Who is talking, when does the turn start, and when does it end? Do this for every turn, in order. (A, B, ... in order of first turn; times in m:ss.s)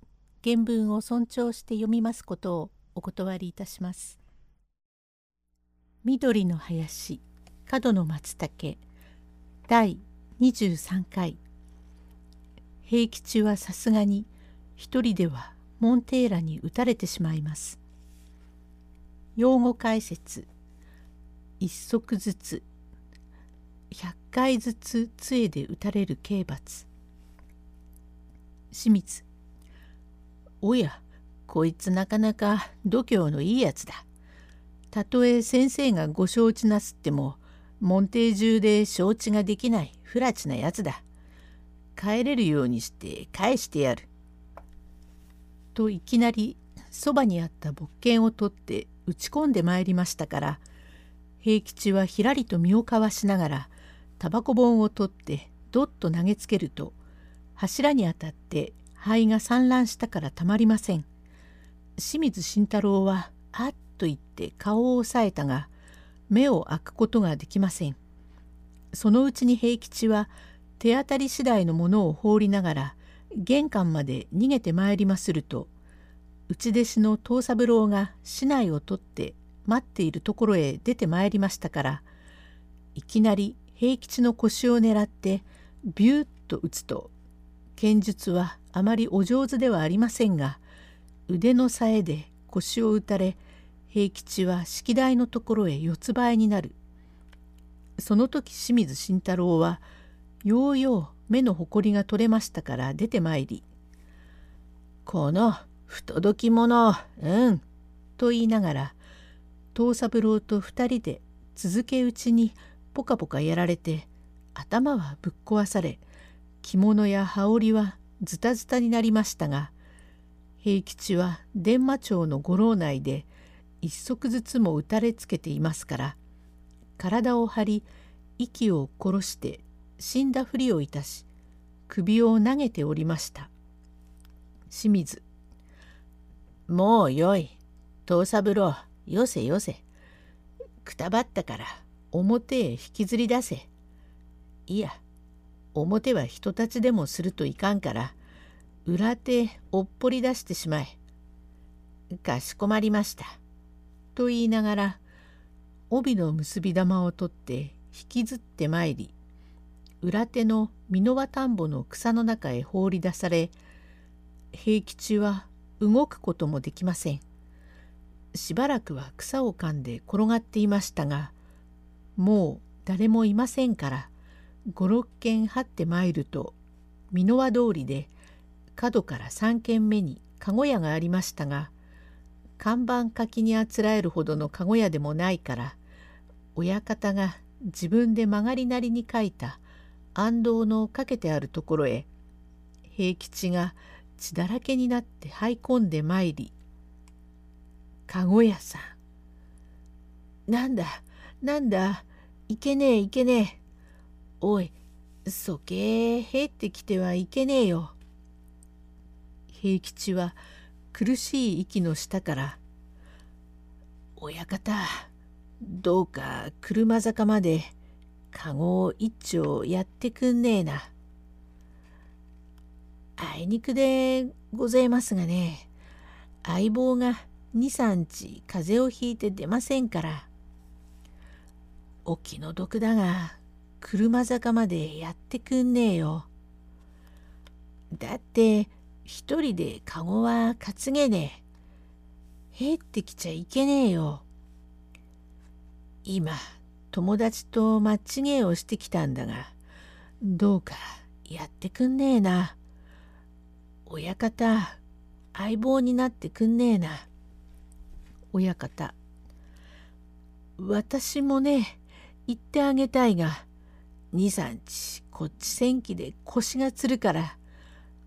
0:00.4-0:04.2 A
0:06.0-0:08.8 A
0:09.7-0:11.4 A
0:12.8-0:17.8 A
0:19.4-0:20.5 A
0:21.6-0:22.6 A
0:23.9-0:26.9 A
0:28.7-0:29.2 A
0:30.6-0:34.0 A
0:34.9-0:41.0 A
0:42.0-0:44.1 A
0:45.7-0:50.6 A
0:51.4-0:57.0 A
0:57.6-1:01.1 A
1:02.0-1:05.7 A
1:06.3-1:08.0 A
1:08.9-1:15.7 A
1:16.5-1:22.1 A
1:23.0-1:27.1 A
1:27.8-1:30.6 A
1:31.3-1:36.8 A
1:38.0-1:39.8 A
1:40.4-1:43.7 A
1:45.1-1:47.6 A
1:48.2-1:49.0 A
1:49.7-1:56.0 A
1:56.6-1:59.7 A
2:00.6-2:03.3 A
2:03.8-2:06.2 A
2:07.0-2:07.9 A
2:08.4-2:11.3 A
2:11.9-2:13.5 A
2:14.7-2:15.2 A
2:16.7-2:19.8 A
2:20.8-2:23.7 A
2:24.7-2:25.0 A
2:25.7-2:28.2 A
2:28.8-2:31.0 A
2:32.1-2:33.4 A
2:34.1-2:35.0 A
2:35.9-2:39.1 A
2:40.0-2:43.5 A
2:44.5-2:47.2 A
2:48.3-2:51.4 A
2:52.2-2:54.1 A
2:54.7-2:56.6 A
2:57.1-2:58.1 A
2:58.8-3:01.7 A
3:02.6-3:05.8 A
3:06.6-3:09.6 A
3:10.2-3:12.1 A
3:12.9-3:16.5 A
3:18.1-3:19.0 A
3:20.5-3:23.6 A
3:24.4-3:28.0 A
3:29.5-3:30.4 A
3:30.9-3:32.6 A
3:34.2-3:37.7 A
3:38.3-3:40.9 A
3:43.2-3:45.7 A
3:46.4-3:50.3 A
3:52.0-3:56.3 A
3:57.9-4:01.4 A
4:02.5-4:04.2 A
4:06.0-4:09.6 A
4:10.2-4:12.6 A
4:13.9-4:14.8 A
4:15.3-4:17.1 A
4:18.3-4:19.0 A
4:20.6-4:23.5 A
4:24.1-4:27.4 A